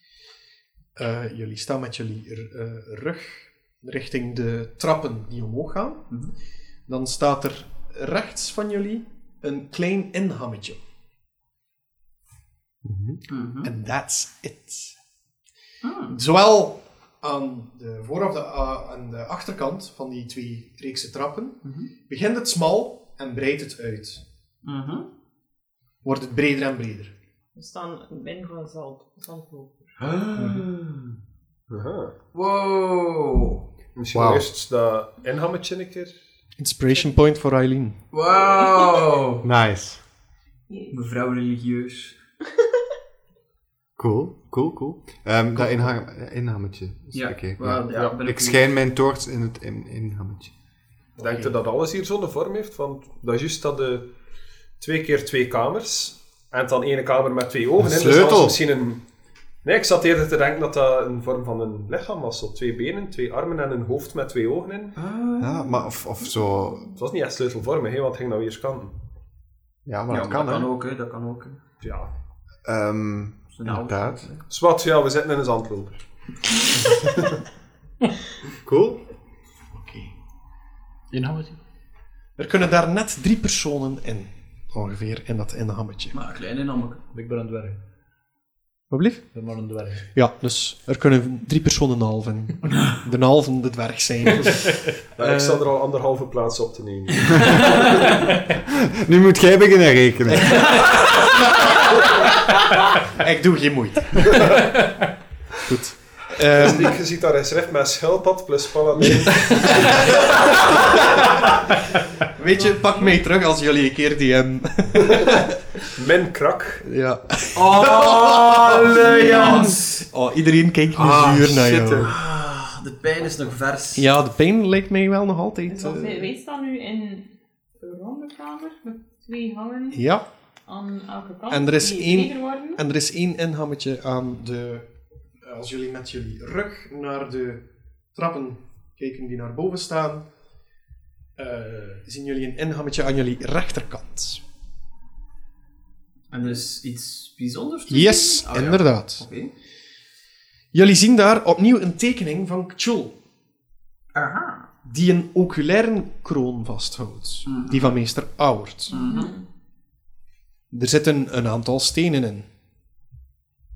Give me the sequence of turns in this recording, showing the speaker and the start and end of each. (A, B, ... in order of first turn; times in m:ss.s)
0:01.0-0:06.2 A
0:06.9-0:10.8 A
0:12.8-0:13.2 B
0:13.3-0:13.7 C
0:13.6-0:15.0 A
0:15.8-0:16.2 C
0:16.1-0:24.2 A
0:21.6-0:21.9 C
0:24.6-0:25.1 C
0:26.0-0:27.1 A
0:27.5-0:29.9 D
0:30.0-0:31.2 C
0:30.4-0:30.6 E
0:31.7-0:32.1 F
0:32.3-0:33.6 C
0:33.9-0:36.1 F
0:34.1-0:34.5 B
0:36.6-0:38.0 A
0:38.1-0:39.4 C
0:39.4-0:40.0 B
0:40.7-0:40.9 D
0:40.9-0:42.2 C
0:44.0-0:50.5 B
0:45.6-0:45.8 A
0:47.1-0:48.6 C
0:51.2-0:54.1 F
0:54.8-0:59.0 F
0:57.8-0:58.6 B
0:59.6-1:05.0 F
1:05.0-1:05.9 C
1:05.4-1:06.9 B
1:07.0-1:08.9 F
1:09.8-1:10.7 B
1:10.1-1:11.6 C
1:11.8-1:12.1 F
1:12.6-1:14.2 B
1:13.5-1:14.4 C
1:14.5-1:16.0 F
1:18.6-1:19.0 B
1:19.7-1:20.1 A
1:21.1-1:21.6 E
1:22.4-1:26.1 A
1:26.1-1:27.0 C
1:27.1-1:27.8 E
1:28.9-1:29.5 A
1:29.3-1:30.1 E
1:30.1-1:35.0 A
1:35.2-1:38.0 F
1:35.2-1:35.6 C
1:37.3-1:38.1 C
1:38.7-1:40.7 B
1:40.6-1:41.0 C
1:43.1-1:44.8 A
1:45.6-1:47.0 A
1:46.5-1:51.0 F
1:49.6-1:49.8 C
1:52.3-1:55.6 A
1:55.9-1:56.8 F
1:56.8-2:02.1 A
1:57.5-2:00.0 C
2:01.0-2:02.1 B
2:01.0-2:04.1 C
2:04.0-2:06.3 A
2:05.7-2:10.0 D
2:09.9-2:10.2 A
2:10.6-2:12.8 D
2:11.5-2:14.9 A
2:15.4-2:20.3 A
2:21.4-2:24.4 A
2:26.3-2:29.5 C
2:27.9-2:29.2 A
2:30.7-2:33.2 A
2:34.1-2:34.7 C
2:34.8-2:38.9 A
2:37.4-2:38.0 C
2:38.9-2:39.4 D
2:38.9-2:39.3 C
2:40.7-2:42.5 A